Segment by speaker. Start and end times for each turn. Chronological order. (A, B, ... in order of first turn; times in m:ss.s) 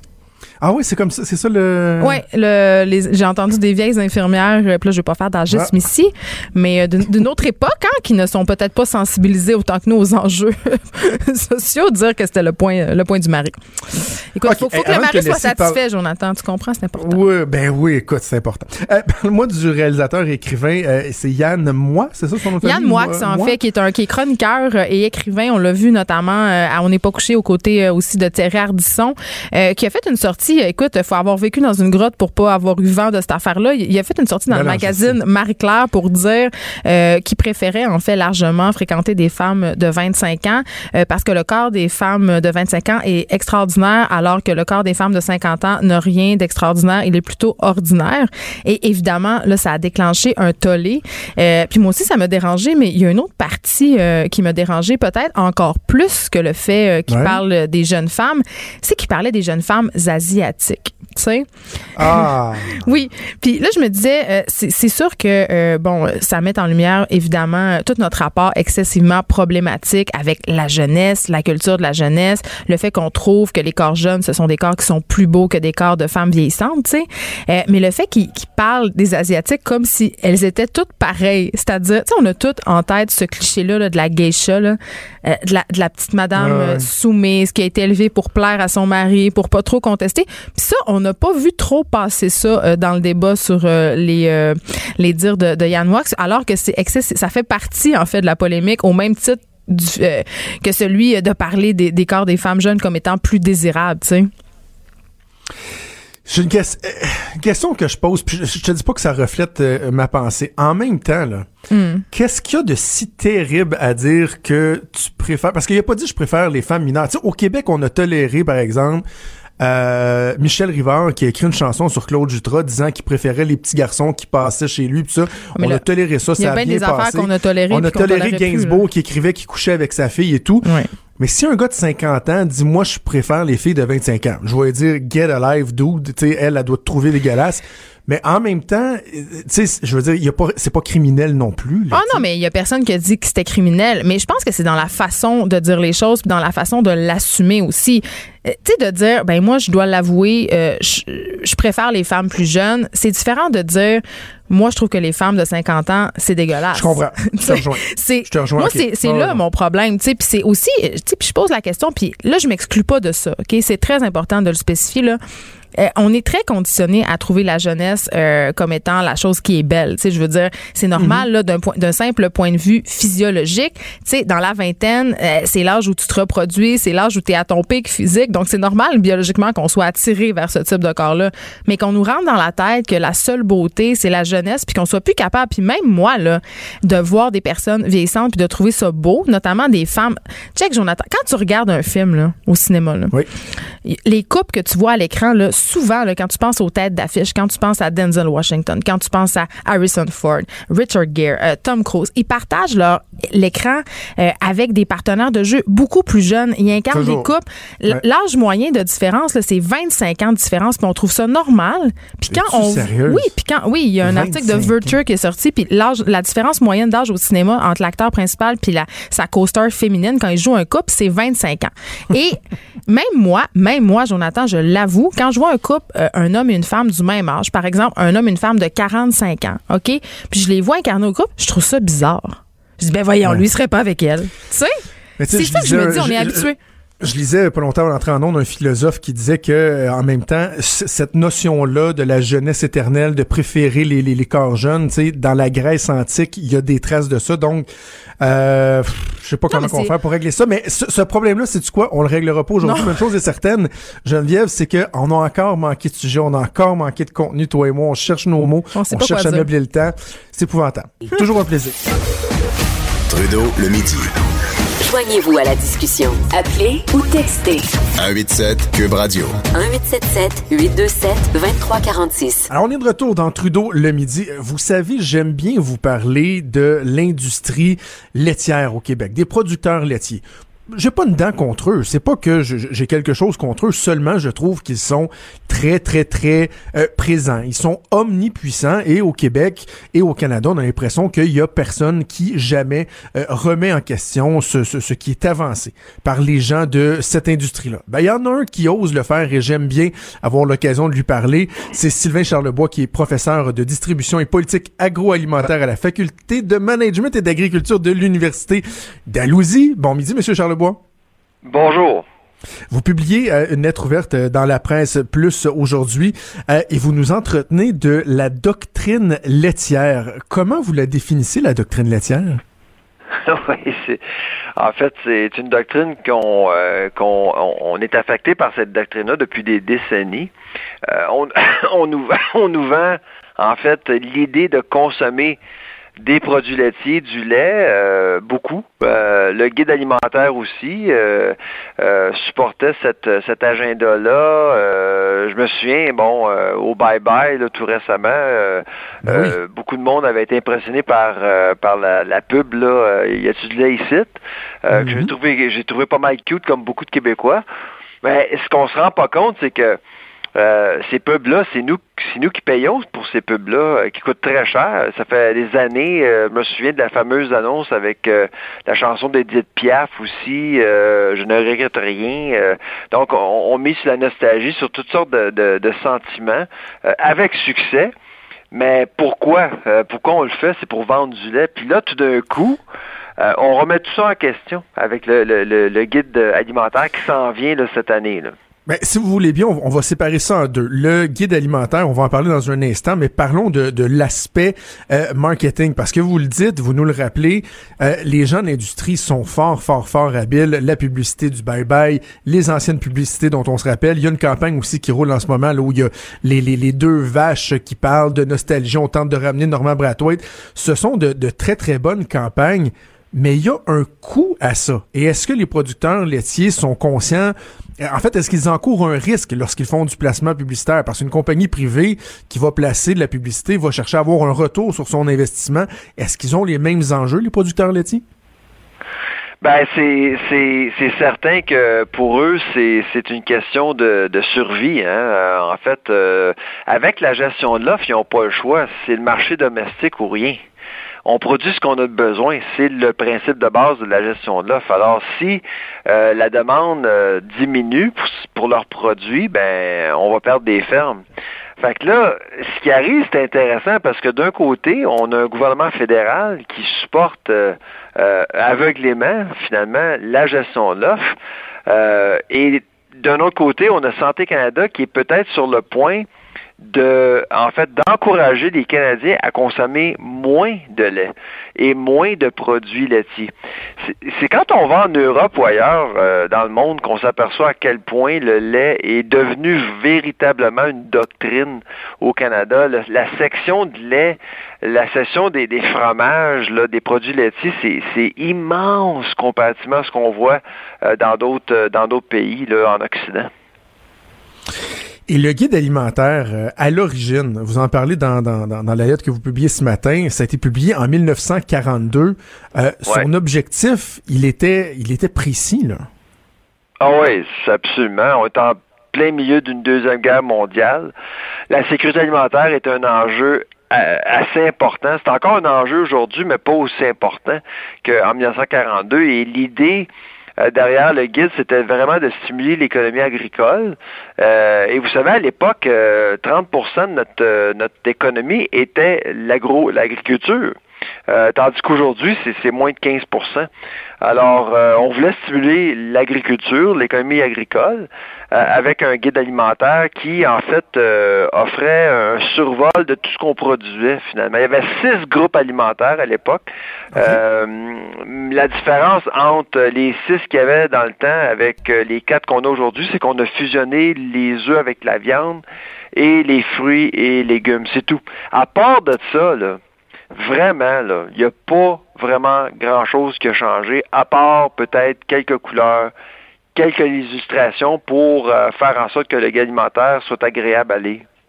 0:00.6-0:02.2 A
0:02.0-0:17.2 B
0:14.4-0:15.8 A
0:17.0-0:23.6 A
0:22.6-1:01.5 B
0:34.5-0:35.2 A
0:57.1-0:57.4 A
1:01.9-1:02.9 A
1:02.8-1:44.3 B
1:26.4-1:26.9 A
1:46.2-1:51.5 A
1:51.7-1:52.0 B
1:52.1-1:59.0 A
1:59.6-2:10.7 A
2:05.6-2:05.8 B
2:06.4-2:08.8 B
2:10.6-2:10.9 B
2:11.2-2:22.2 A
2:21.9-2:45.2 B
2:36.7-2:39.4 A
2:45.8-3:13.1 B
2:51.0-2:51.2 A
3:13.8-3:54.7 B
3:26.9-3:27.3 A
3:32.3-3:33.3 A
3:34.0-3:34.9 A
3:55.2-3:56.5 A
3:55.3-3:56.6 B
3:57.0-4:07.7 A
4:08.2-4:21.8 A
4:09.5-4:09.9 B
4:12.6-4:13.0 B
4:18.7-4:19.5 B
4:23.1-4:24.1 C
4:24.8-4:27.7 D
4:28.0-4:29.3 C
4:29.5-4:32.5 D
4:32.5-5:10.8 A
5:11.4-5:12.0 E
5:12.7-5:22.4 A
5:23.2-5:24.0 E
5:24.6-5:30.3 E
5:30.8-5:35.4 E
5:36.0-5:57.4 E
5:49.0-5:49.4 A
5:54.7-5:55.1 A
5:58.0-5:59.8 E
6:00.3-6:17.9 E
6:18.5-6:22.6 E
6:23.2-6:28.3 E
6:28.6-7:08.0 A
7:09.4-7:20.4 E
7:21.0-7:31.0 E
7:31.6-7:41.2 E
7:41.7-7:46.1 E
7:46.6-8:13.3 E
8:15.1-8:25.8 A
8:26.8-8:30.9 E
8:31.5-8:50.6 E
8:51.1-8:53.5 E
8:54.0-9:15.4 E
9:06.9-9:07.2 A
9:15.9-9:19.6 E
9:20.1-9:25.9 E
9:26.5-9:31.0 E